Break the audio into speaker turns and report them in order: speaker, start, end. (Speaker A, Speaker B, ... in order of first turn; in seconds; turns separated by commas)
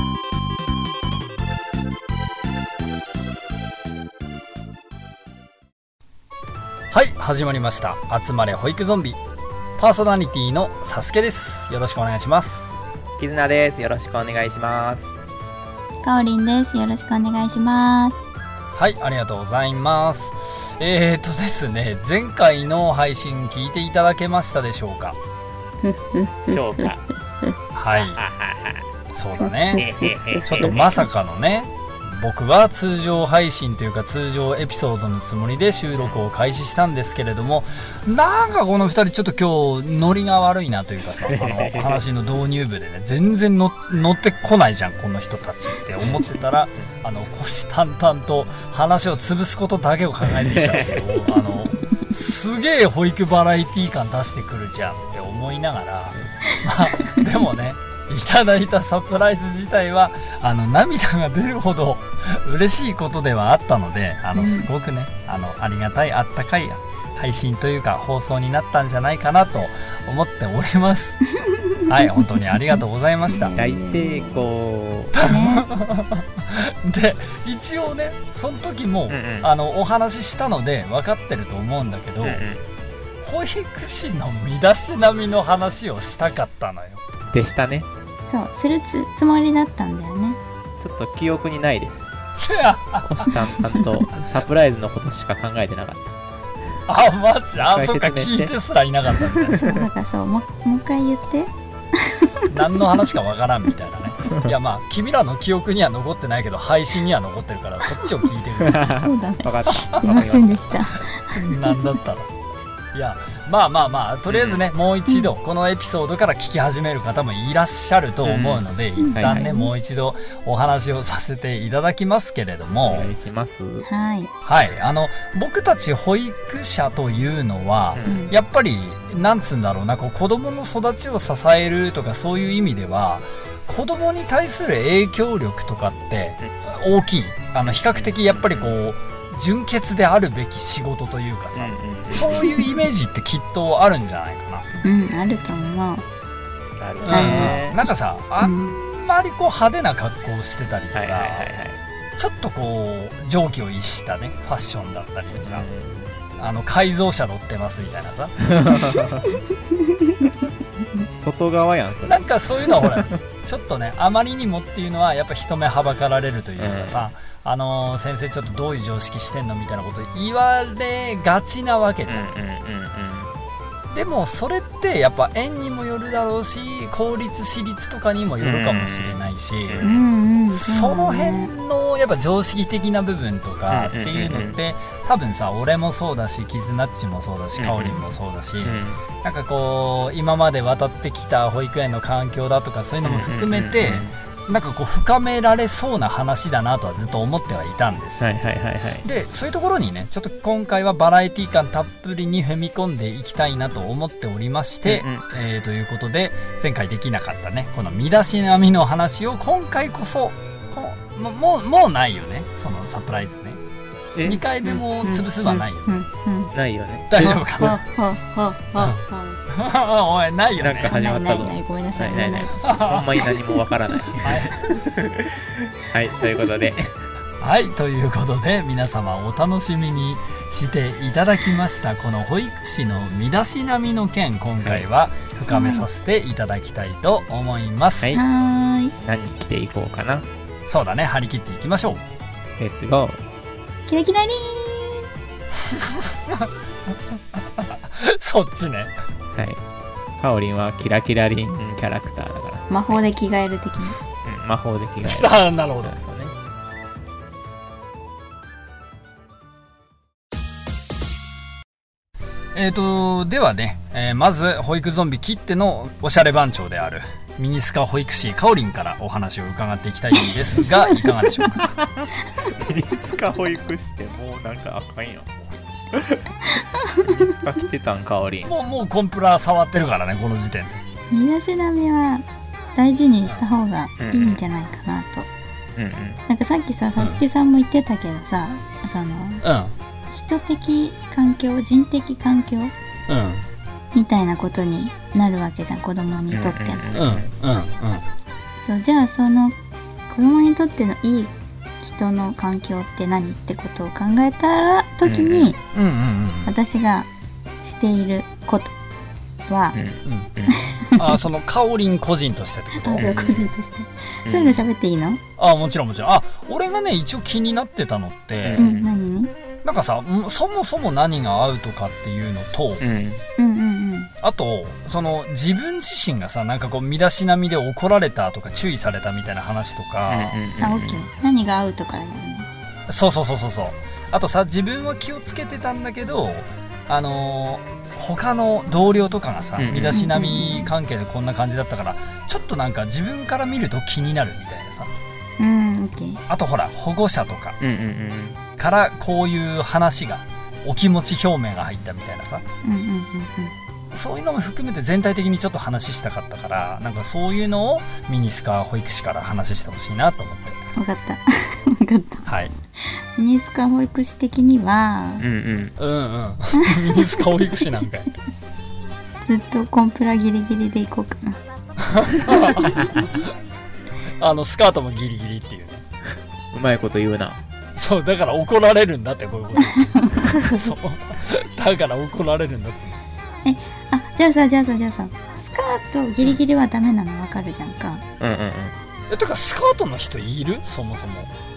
Speaker A: 6.9-9.2, Speaker A: 9.8-12.8, Speaker B: 13.2-15.2, Speaker C: 16.0-18.1, Speaker A: 18.8-25.1, Speaker C: 25.8-26.9, Speaker B: 26.5-27.0, Speaker A: 27.7-28.2, Speaker B: 27.9-28.8, Speaker A: 29.1-29.9, Speaker C: 29.4-31.0, Speaker B: 29.8-31.1, Speaker A: 30.4-71.2, Speaker B: 41.2-42.0, Speaker B: 46.0-46.9, Speaker B: 50.3-51.1, Speaker C: 64.3-64.7, Speaker C: 71.3-72.4, Speaker A: 71.9-73.6, Speaker C: 73.3-74.4, Speaker B: 73.5-75.1, Speaker A: 75.1-82.4, Speaker C: 75.2-75.7, Speaker B: 79.1-79.5, Speaker B: 82.2-82.6, Speaker A: 83.2-87.0, Speaker B: 87.3-87.9, Speaker C: 88.3-90.4, Speaker B: 90.8-92.2, Speaker A: 92.4-93.3, Speaker B: 93.0-96.2, Speaker A: 96.9-99.8, Speaker B: 97.5-98.5, Speaker B: 99.2-99.8, Speaker C: 99.5-102.5, Speaker A: 102.5-108.8, Speaker B: 108.6-110.8, Speaker C: 108.9-111.8, Speaker A: 111.3-112.3, Speaker A: 112.9-123.1, Speaker B: 114.3-114.6, Speaker B: 118.2-118.6, Speaker C: 119.0-119.7, Speaker B: 119.1-119.5, Speaker B: 122.9-123.8, Speaker C: 123.8-124.3, Speaker A: 124.4-144.7, Speaker B: 127.9-128.3, Speaker C: 128.0-128.3, Speaker B: 137.9-138.7, Speaker B: 141.5-142.4, Speaker C: 144.8-146.0, Speaker B: 146.8-147.8, Speaker A: 147.0-151.5, Speaker C: 147.1-148.8, Speaker B: 150.9-151.8, Speaker A: 152.2-155.7, Speaker B: 155.3-156.2, Speaker A: 156.4-158.5, Speaker B: 158.5-159.3, Speaker C: 160.0-160.3, Speaker B: 161.1-163.2, Speaker A: 162.1-172.2, Speaker B: 166.6-167.0, Speaker B: 172.1-173.3, Speaker A: 173.9-198.3, Speaker B: 178.4-179.9, Speaker C: 179.8-181.5, Speaker B: 183.7-184.6, Speaker B: 187.6-188.0, Speaker B: 188.6-189.0, Speaker B: 193.0-194.1, Speaker B: 198.2-199.0, Speaker A: 199.0-213.6, Speaker B: 204.8-205.2, Speaker B: 214.1-214.4, Speaker A: 214.2-215.9, Speaker C: 214.6-216.5, Speaker B: 216.5-217.7, Speaker A: 217.1-217.7, Speaker C: 217.2-219.4, Speaker A: 219.5-220.9, Speaker B: 220.6-227.0, Speaker C: 220.8-223.6, Speaker A: 222.6-223.2, Speaker A: 224.2-224.8, Speaker C: 226.2-226.7, Speaker A: 227.4-238.2, Speaker C: 235.5-235.8, Speaker C: 238.1-238.9, Speaker B: 239.0-240.3, Speaker A: 240.7-242.0, Speaker B: 242.6-243.2, Speaker C: 243.9-245.1, Speaker A: 245.9-246.5, Speaker A: 247.6-248.9, Speaker B: 249.3-249.6, Speaker B: 250.2-253.0, Speaker C: 252.7-254.0, Speaker B: 254.2-256.3, Speaker A: 255.0-255.9, Speaker A: 262.5-271.6, Speaker C: 270.2-271.6, Speaker B: 271.6-275.3, Speaker C: 272.2-272.5, Speaker B: 275.9-276.3, Speaker C: 276.5-277.3, Speaker B: 277.0-278.5, Speaker A: 278.4-280.8, Speaker C: 281.1-282.2, Speaker C: 282.8-285.3, Speaker B: 284.0-284.4, Speaker B: 285.8-286.2, Speaker C: 286.3-289.4, Speaker A: 289.4-289.7, Speaker C: 290.1-292.7, Speaker A: 293.1-293.4, Speaker C: 293.9-296.9, Speaker B: 296.3-297.3, Speaker A: 296.9-298.0, Speaker C: 298.6-299.6, Speaker C: 300.1-305.6, Speaker B: 305.0-305.5, Speaker A: 305.7-306.5, Speaker C: 306.4-307.1, Speaker C: 307.6-308.7, Speaker C: 309.5-309.8, Speaker B: 309.7-310.6, Speaker A: 310.0-310.3, Speaker C: 310.5-311.1, Speaker A: 310.9-313.1, Speaker C: 312.8-315.2, Speaker B: 312.9-313.5, Speaker B: 314.2-314.6, Speaker A: 315.4-318.6, Speaker B: 318.4-318.9, Speaker C: 318.6-319.3, Speaker A: 319.6-322.8, Speaker B: 322.8-323.2, Speaker C: 323.4-324.1, Speaker A: 324.2-330.4, Speaker B: 330.1-331.0, Speaker C: 330.6-332.5, Speaker A: 332.9-344.9, Speaker B: 339.6-340.0, Speaker C: 339.9-340.7, Speaker C: 345.4-346.2, Speaker A: 346.3-347.6, Speaker B: 347.6-348.4, Speaker A: 348.6-352.4, Speaker C: 352.6-353.5, Speaker A: 353.9-360.6, Speaker C: 360.7-365.2, Speaker A: 362.2-362.5, Speaker B: 365.2-365.7, Speaker A: 365.8-368.1, Speaker C: 366.6-367.2, Speaker C: 369.2-371.4, Speaker A: 371.9-373.1, Speaker B: 372.6-373.0, Speaker A: 374.2-375.8, Speaker B: 376.5-377.4, Speaker A: 377.8-383.0, Speaker C: 379.6-380.3, Speaker C: 383.4-388.0, Speaker B: 388.2-388.7, Speaker A: 389.1-391.3